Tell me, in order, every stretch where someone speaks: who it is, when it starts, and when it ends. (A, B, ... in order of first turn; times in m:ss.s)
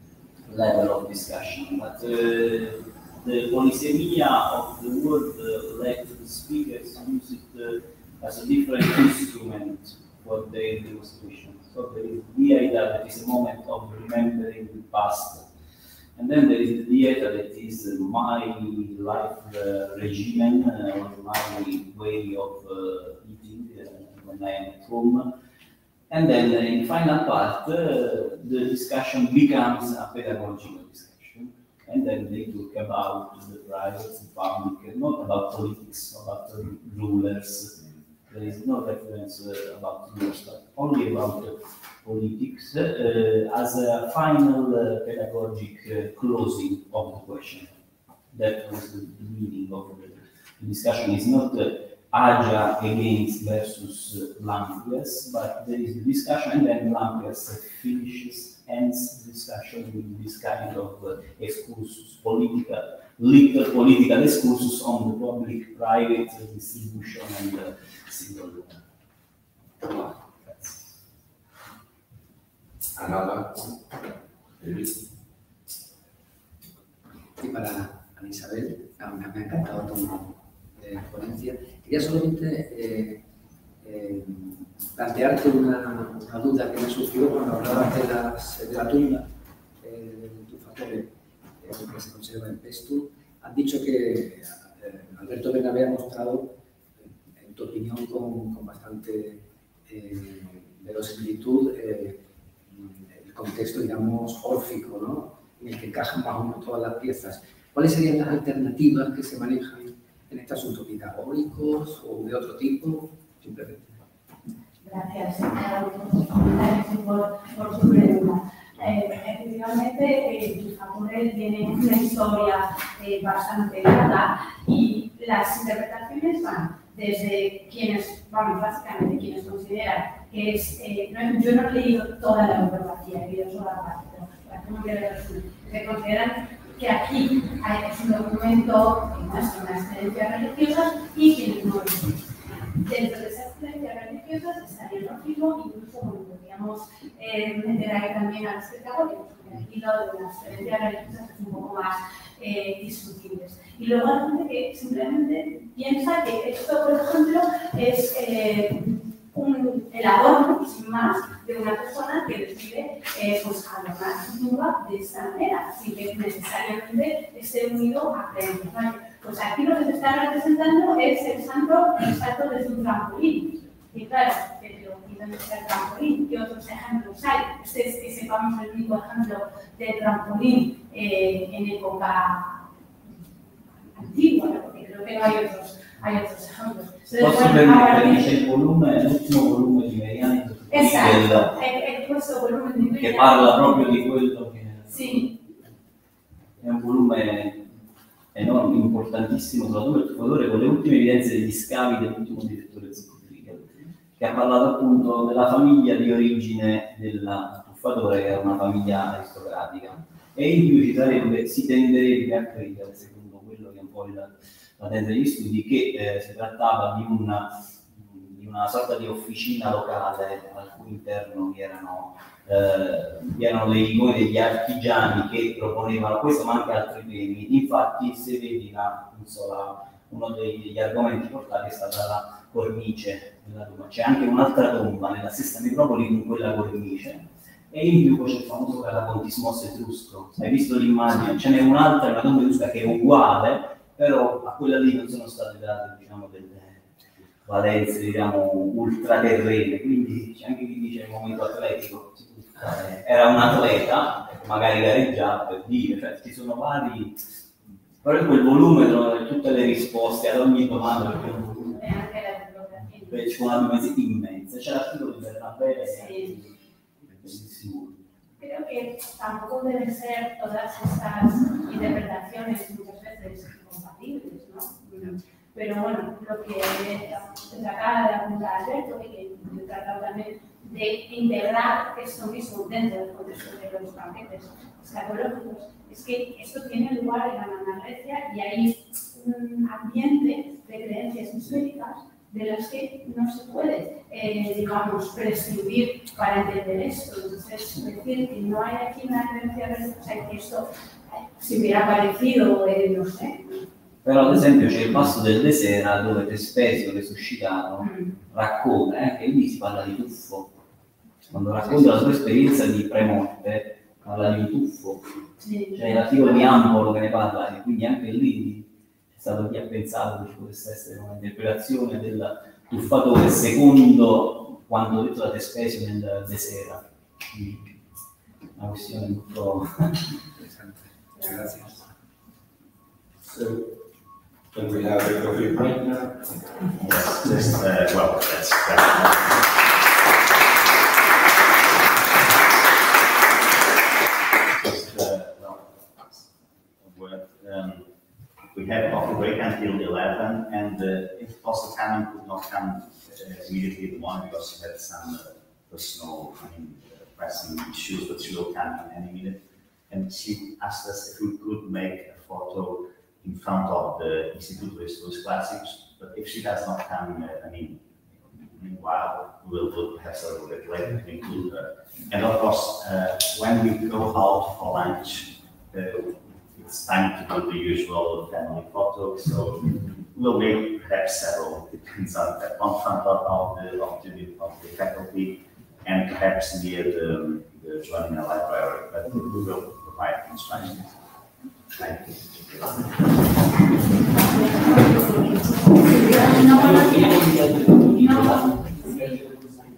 0:00.4-0:15.5 A
0:16.2-0:25.3 A
0:26.1-0:47.7 A
0:48.3-1:08.8 A
1:09.8-1:10.8 A
1:13.0-1:13.8 B
1:14.6-1:15.0 B
1:17.4-1:23.2 C
1:23.8-1:29.3 C
1:29.8-1:36.6 C
1:37.4-1:54.0 C
1:54.8-3:02.7 D
3:03.9-3:08.3 D
3:07.2-3:11.5 A
3:10.7-3:14.0 D
3:13.0-3:15.2 A
3:14.9-3:15.4 D
3:16.6-3:17.7 A
3:18.3-4:17.2 A
4:18.0-4:21.8 A
4:21.8-4:23.6 D
4:23.1-4:28.0 A
4:25.9-4:26.3 D
4:28.4-5:03.6 D
5:04.0-5:10.5 A
5:07.8-5:08.2 D
5:11.3-5:15.1 A
5:15.4-5:16.0 D
5:15.7-5:27.7 A
5:28.6-5:30.0 A
5:30.4-5:31.9 C
5:33.2-5:33.8 B
5:34.5-5:36.7 B
5:36.8-5:39.3 E
5:44.6-5:47.9 E
5:48.5-6:30.9 E
6:31.7-6:33.0 E
6:34.6-6:35.1 D
6:35.7-6:39.2 D
6:36.2-6:38.7 A